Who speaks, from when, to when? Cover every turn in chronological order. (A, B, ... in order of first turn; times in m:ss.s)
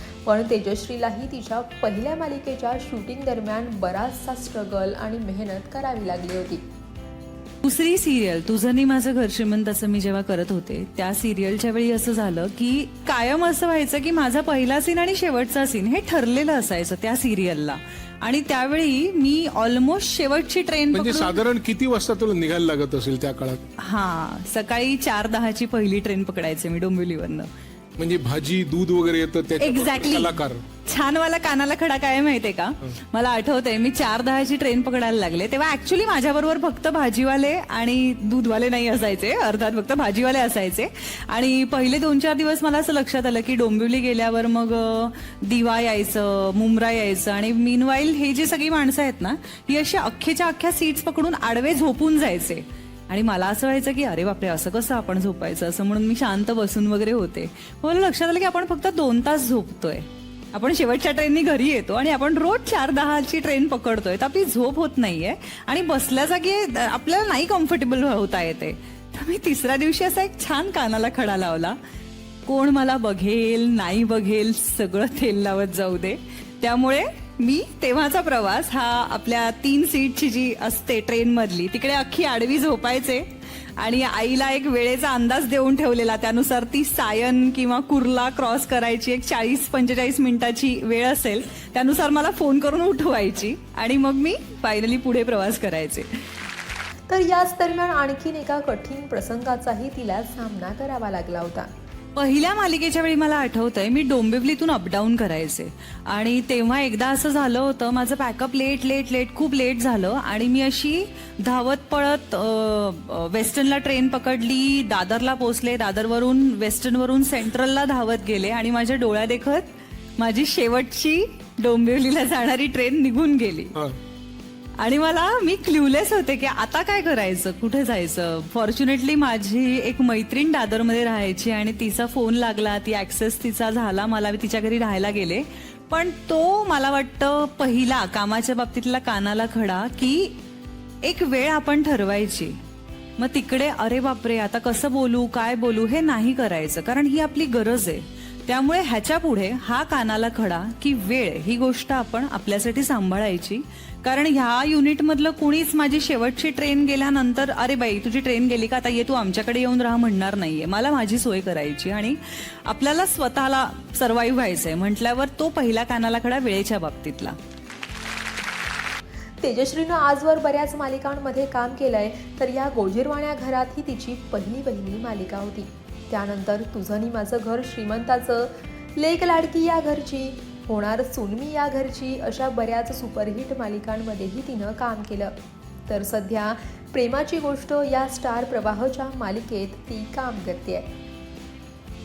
0:00.3-0:06.6 A
0:07.6-0:21.4 B
0:20.9-0:23.6 C
0:23.8-0:27.5 B
0:28.0-0:30.6 C
0:29.6-1:11.8 B
1:12.5-1:36.1 B
1:37.1-1:41.7 A
1:42.2-2:03.8 B
2:04.8-2:20.4 B
2:21.0-2:22.6 B
2:23.2-2:47.4 B
2:49.4-3:05.3 A
3:05.9-3:10.9 A